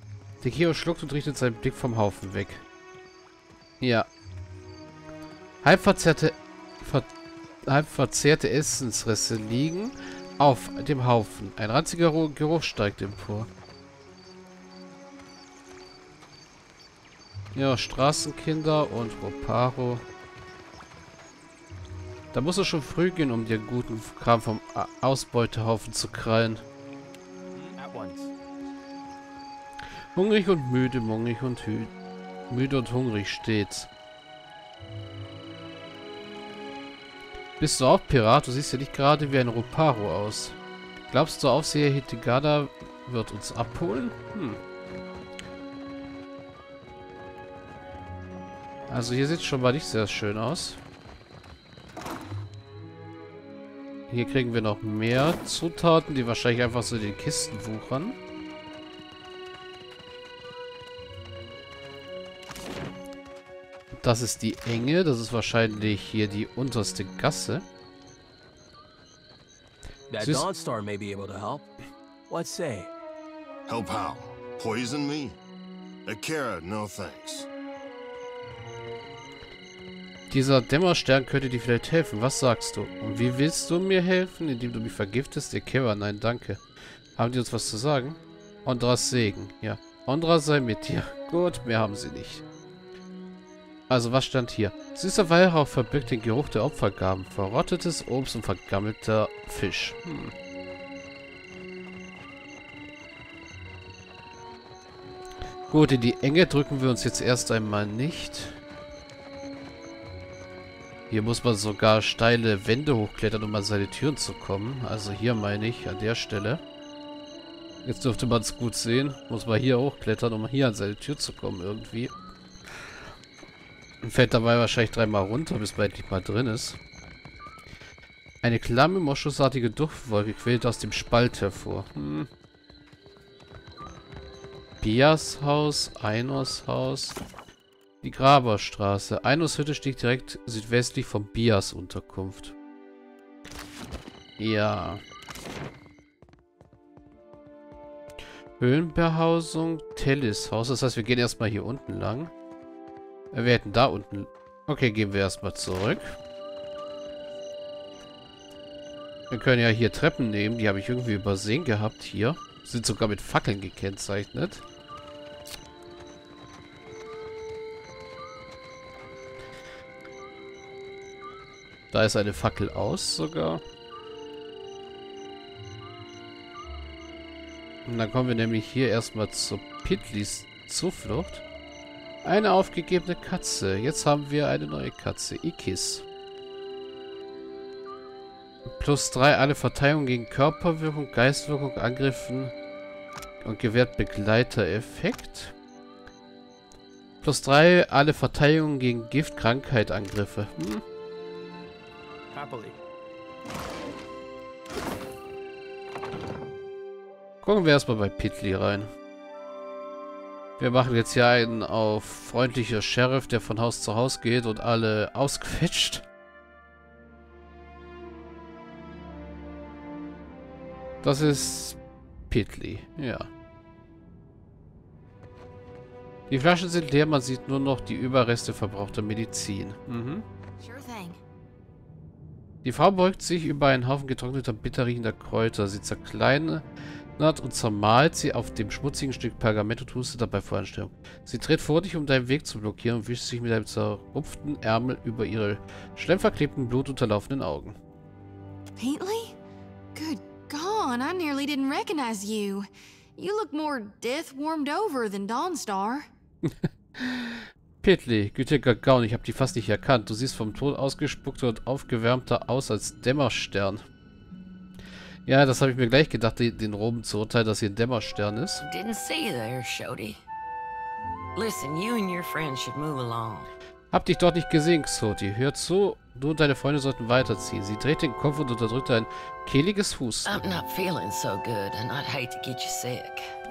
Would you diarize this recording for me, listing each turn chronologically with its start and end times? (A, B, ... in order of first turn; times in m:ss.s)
0:00.4-0:02.6 A
0:03.8-0:04.1 A
0:05.6-0:07.1 A
0:07.7-0:13.5 A
0:17.6-0:20.0 A
0:22.3-0:26.6 A
0:27.5-0:28.3 B
0:30.2-0:31.9 A
0:32.5-0:33.9 A
0:37.6-0:40.6 A
0:41.1-0:44.6 A
0:48.9-0:50.8 A
0:54.1-0:58.2 A
1:04.0-1:07.6 A
1:10.1-1:11.7 B
1:10.2-1:10.5 A
1:12.3-1:12.9 B
1:13.7-1:15.4 C
1:16.1-1:17.5 C
1:20.3-1:26.6 A
1:27.2-1:32.4 A
1:33.9-1:40.3 A
1:45.7-1:48.6 A
1:51.1-1:56.6 A
1:57.8-2:02.1 A
2:04.0-2:06.8 A
2:08.4-2:12.3 A
2:14.8-2:17.2 A
2:18.0-2:22.6 A
2:24.4-2:25.0 A
2:28.6-2:32.3 A
2:33.3-2:36.2 A
2:39.3-2:44.6 A
2:51.9-2:53.6 A
2:57.9-3:01.4 A
3:02.2-3:06.0 A
3:08.7-3:12.5 A
3:13.4-3:15.6 A
3:17.2-3:20.8 A
3:22.3-3:22.8 B
3:27.4-3:28.9 A
3:30.6-3:36.0 A
3:41.0-3:41.8 A
3:42.3-3:43.3 A
3:46.3-3:50.2 A
3:50.6-3:51.2 D
3:52.6-3:56.6 A
3:57.2-4:07.8 A
4:08.8-4:09.4 D
4:10.0-4:12.7 D
4:13.2-4:16.1 D
4:16.5-4:23.8 A
4:25.3-4:28.6 A
4:28.6-4:30.2 E
4:31.4-4:33.5 E
4:33.9-4:40.4 A
4:40.3-4:43.2 E